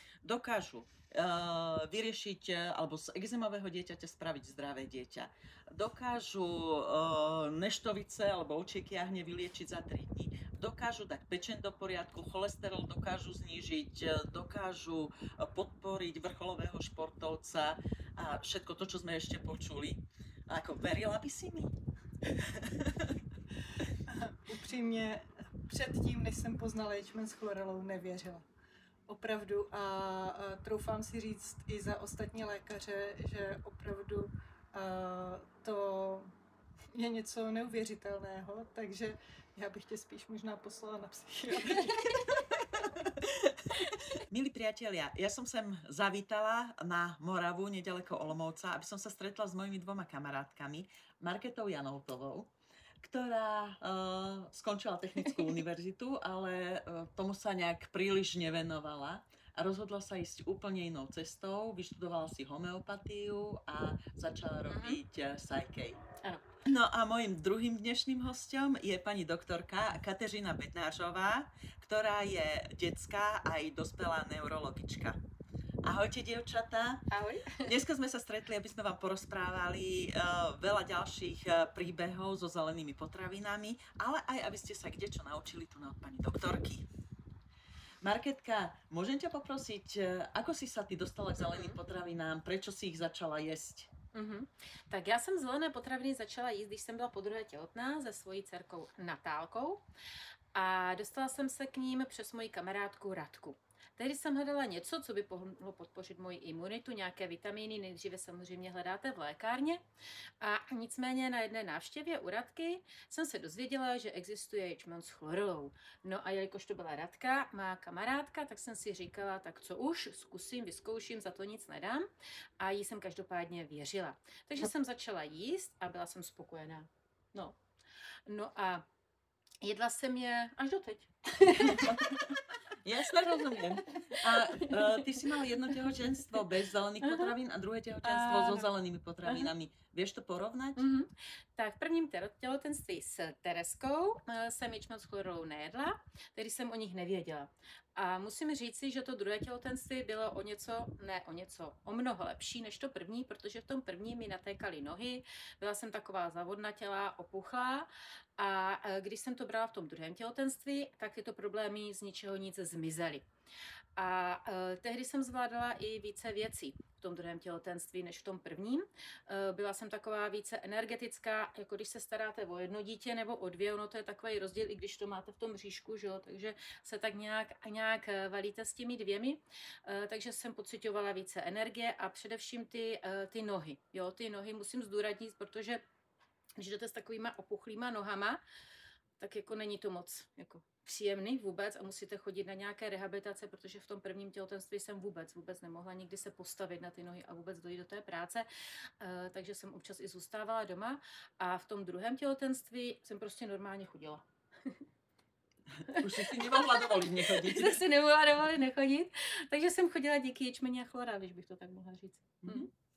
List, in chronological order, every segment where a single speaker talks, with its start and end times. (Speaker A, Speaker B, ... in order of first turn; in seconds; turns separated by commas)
Speaker A: 0.2-21.7, Speaker A: 22.3-23.2, Speaker B: 24.1-28.5, Speaker B: 29.1-36.3, Speaker B: 36.9-42.4, Speaker A: 42.9-43.5, Speaker A: 44.3-66.0, Speaker C: 64.7-65.0, Speaker A: 66.6-75.2, Speaker A: 75.8-77.1, Speaker C: 77.1-77.7, Speaker A: 77.6-86.8, Speaker A: 88.0-93.9, Speaker C: 91.4-91.8, Speaker C: 94.1-99.8, Speaker C: 100.5-109.8, Speaker C: 110.4-122.1, Speaker C: 122.6-127.6, Speaker C: 128.3-128.8, Speaker C: 129.6-132.5, Speaker A: 131.6-140.8, Speaker C: 133.2-135.2, Speaker C: 137.0-137.3, Speaker C: 138.0-138.7, Speaker C: 139.3-139.5, Speaker C: 140.8-163.2, Speaker C: 164.0-185.8, Speaker C: 186.6-188.4, Speaker C: 189.2-204.8, Speaker A: 205.7-207.8, Speaker C: 205.9-212.7, Speaker A: 212.4-212.7